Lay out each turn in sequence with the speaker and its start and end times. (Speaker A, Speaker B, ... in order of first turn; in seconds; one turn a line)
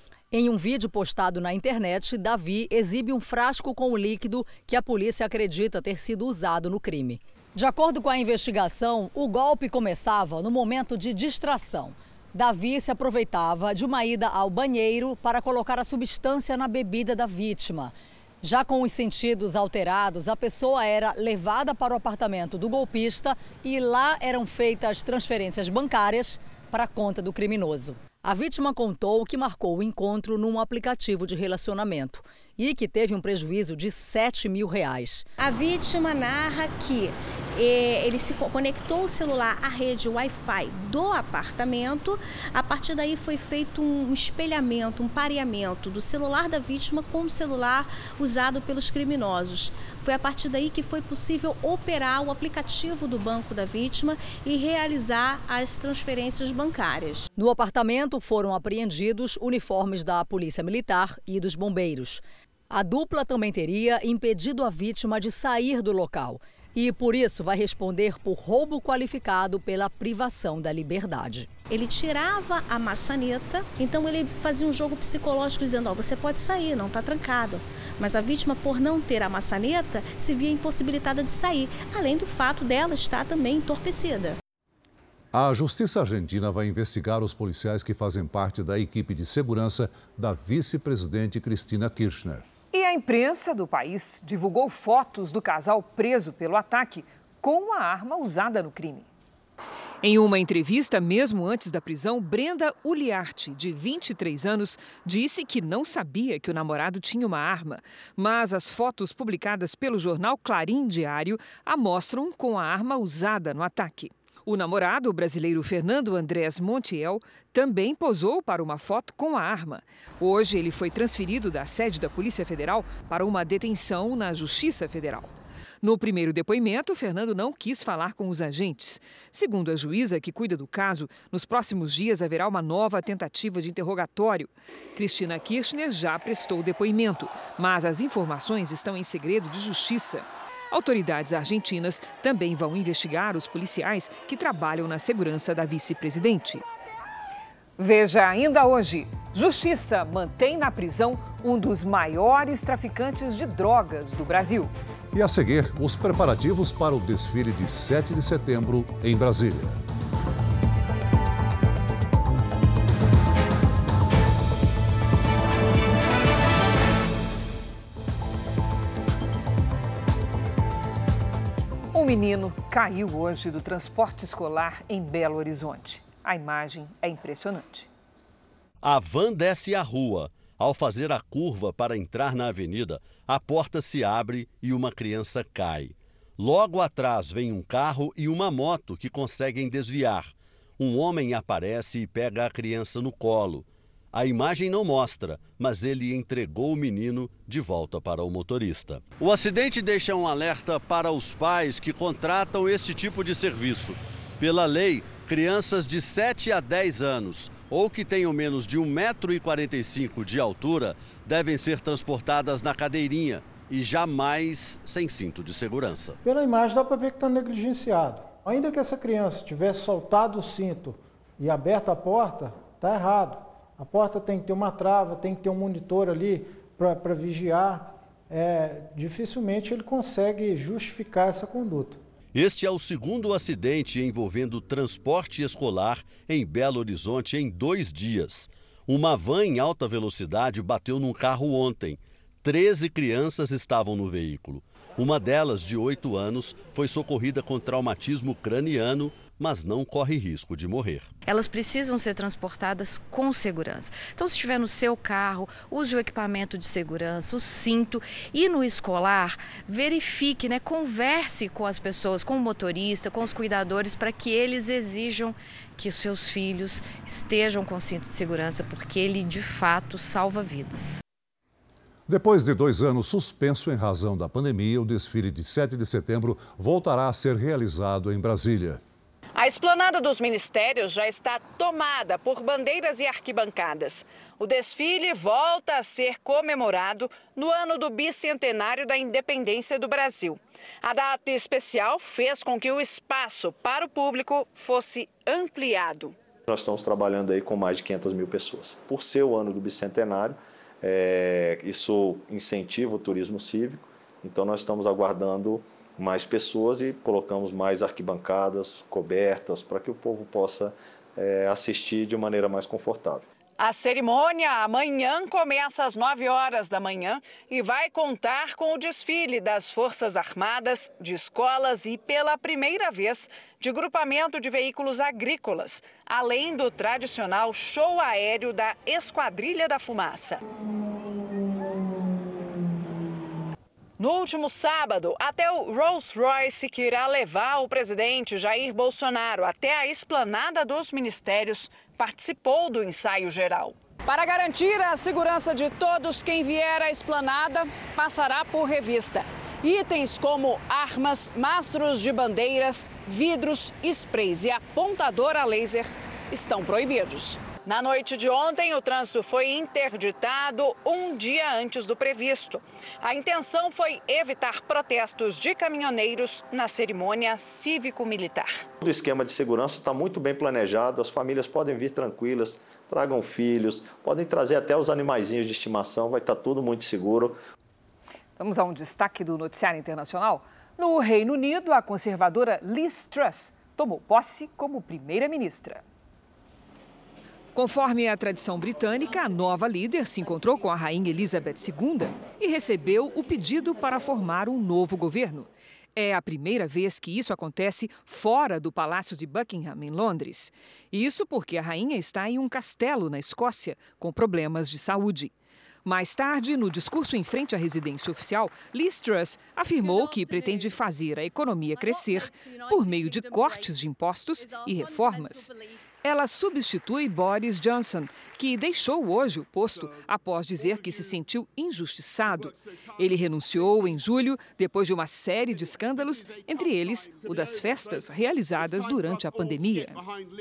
Speaker A: 0.3-35.2
Speaker B: 35.4-57.2
Speaker A: 57.4-71.5
Speaker B: 71.7-84.3
Speaker C: 85.3-92.4
Speaker D: 92.7-99.1
Speaker D: 100.0-125.3
Speaker D: 125.8-146.6
Speaker D: 147.8-154.7
Speaker C: 155.1-159.8
Speaker D: 171.9-177.9
Speaker E: 178.8-216.2
Speaker F: 216.2-232.0
Speaker E: 232.3-251.1
Speaker G: 251.3-271.0
Speaker C: 272.1-278.8
Speaker H: 279.4-296.1
Speaker I: 296.5-313.2
Speaker H: 313.6-330.4
Speaker H: 334.0-368.5
Speaker I: 368.8-377.4
Speaker D: 378.4-385.8
Speaker D: 387.5-405.3
Speaker D: 405.8-415.5
Speaker D: 416.0-430.0